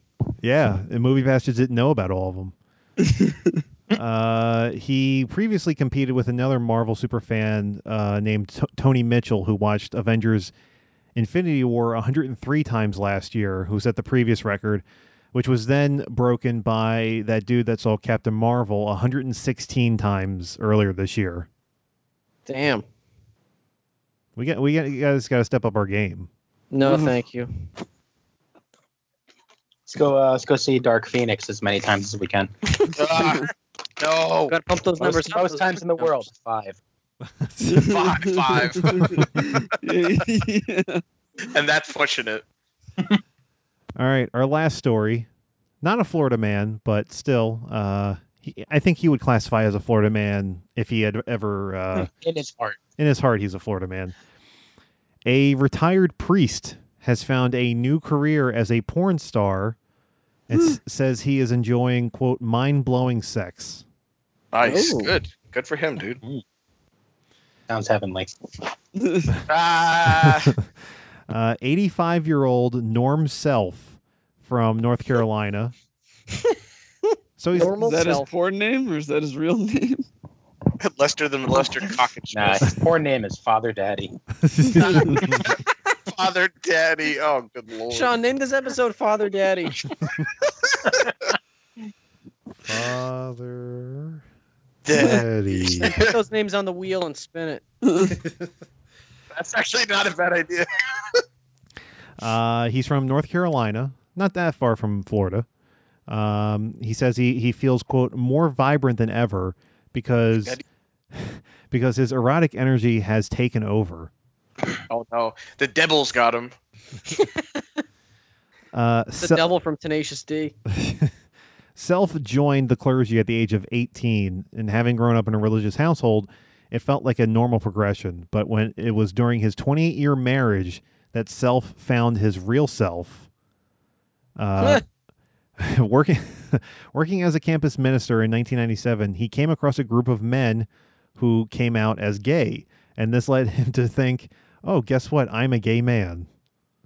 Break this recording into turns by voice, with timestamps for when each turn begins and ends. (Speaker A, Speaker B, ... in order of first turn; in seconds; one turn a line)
Speaker A: 0.4-2.5
Speaker B: 3.0-3.6
Speaker A: 3.9-10.5
Speaker A: 11.1-21.5
Speaker C: 22.4-22.8
Speaker A: 24.4-26.3
Speaker C: 26.7-27.5
Speaker D: 29.9-32.5
Speaker E: 33.0-33.5
Speaker B: 33.1-33.4
Speaker E: 34.0-34.5
Speaker C: 34.5-36.1
Speaker D: 35.0-36.8
Speaker A: 37.4-38.0
Speaker B: 37.6-41.0
Speaker E: 37.8-39.3
Speaker E: 41.5-42.4
Speaker A: 44.0-45.3
Speaker A: 45.8-52.1
Speaker D: 51.9-52.8
Speaker A: 53.0-54.1
Speaker A: 55.2-59.8
Speaker A: 60.5-63.8
Speaker E: 64.5-66.2
Speaker B: 64.6-65.1
Speaker D: 67.7-68.3
Speaker B: 69.0-69.4
Speaker E: 69.5-70.5
Speaker A: 70.1-70.5
Speaker A: 71.3-75.7
Speaker A: 77.4-77.8
Speaker C: 77.5-78.3
Speaker B: 77.8-80.0
Speaker E: 80.8-82.8
Speaker D: 82.3-84.2
Speaker A: 84.4-85.5
Speaker C: 84.8-85.1
Speaker E: 86.1-88.1
Speaker C: 87.9-89.8
Speaker A: 92.6-94.2
Speaker E: 94.8-96.2
Speaker A: 94.9-95.9
Speaker C: 95.8-97.6
Speaker B: 97.8-98.1
Speaker E: 99.3-101.2
Speaker A: 102.2-105.5
Speaker A: 106.1-110.6
Speaker A: 111.1-114.1
Speaker E: 114.9-116.5
Speaker C: 117.1-117.5
Speaker A: 118.7-119.5
Speaker C: 119.2-120.5
Speaker A: 120.7-121.1
Speaker A: 121.8-133.3
Speaker A: 134.4-134.8
Speaker A: 135.6-146.3